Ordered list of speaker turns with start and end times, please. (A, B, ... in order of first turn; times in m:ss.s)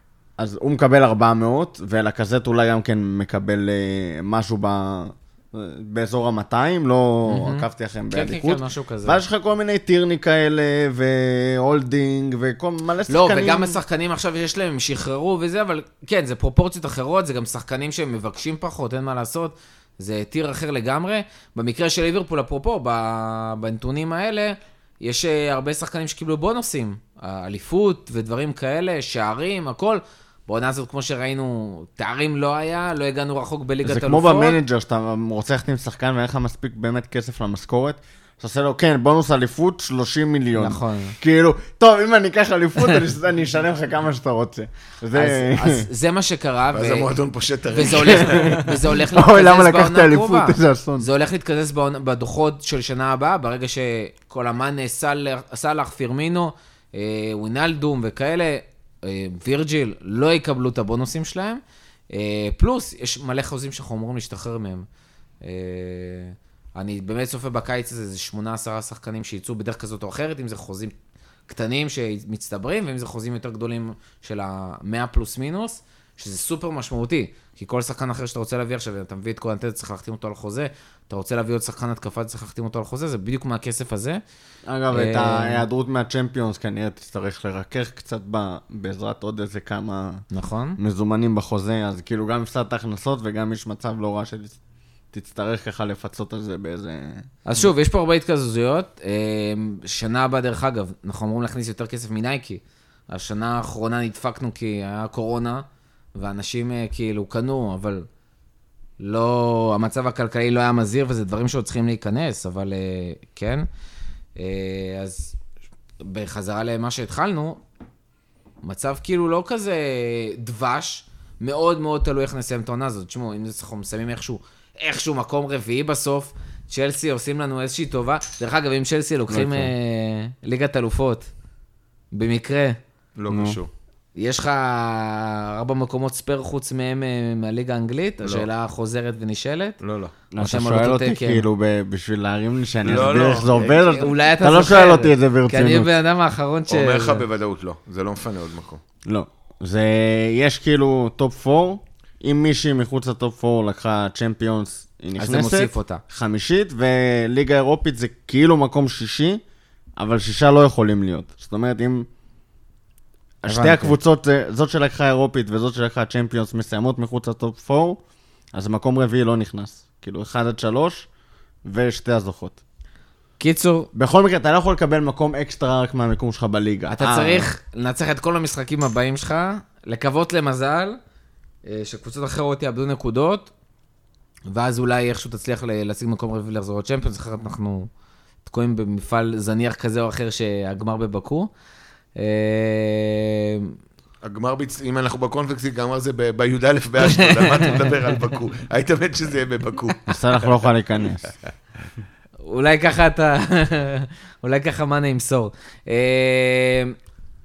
0:00.4-0:13.8 A
0:07.3-0:09.2 B
0:13.1-0:34.6 B
0:33.8-0:45.9 A
0:40.6-0:41.2 B
0:45.1-0:47.1 B
0:46.7-0:48.6 C
0:47.7-1:04.9 B
0:48.2-0:51.1 A
1:05.4-1:10.9 B
1:11.5-1:24.2 B
1:24.7-1:30.2 A
1:24.9-1:25.6 B
1:30.3-1:30.8 B
1:30.8-1:34.6 A
1:35.1-1:37.3 A
1:37.4-1:48.1 B
1:49.0-1:53.7 B
1:54.4-1:55.4 B
1:56.0-1:57.6 B
1:58.6-2:11.3 B
2:09.3-2:09.7 A
2:12.1-2:12.8 B
2:13.2-2:13.7 C
2:13.3-2:13.6 A
2:14.2-2:19.8 B
2:18.2-2:18.5 C
2:19.8-2:20.1 C
2:20.3-2:25.9 A
2:20.4-2:21.4 B
2:22.8-2:23.7 C
2:23.2-2:27.2 B
2:26.7-2:28.8 C
2:29.0-2:39.4 A
2:35.2-2:36.0 B
2:40.0-2:42.1 A
2:43.4-2:48.0 A
2:43.5-2:44.0 B
2:48.5-2:51.1 A
2:51.6-2:52.6 A
2:53.4-2:53.9 B
2:53.9-2:57.5 A
2:57.0-3:01.0 B
3:01.6-3:03.5 B
3:04.5-3:07.9 B
3:08.4-3:11.5 B
3:12.2-3:13.8 B
3:14.2-3:20.0 C
3:17.1-3:17.9 B
3:20.1-3:21.3 A
3:22.4-3:27.0 B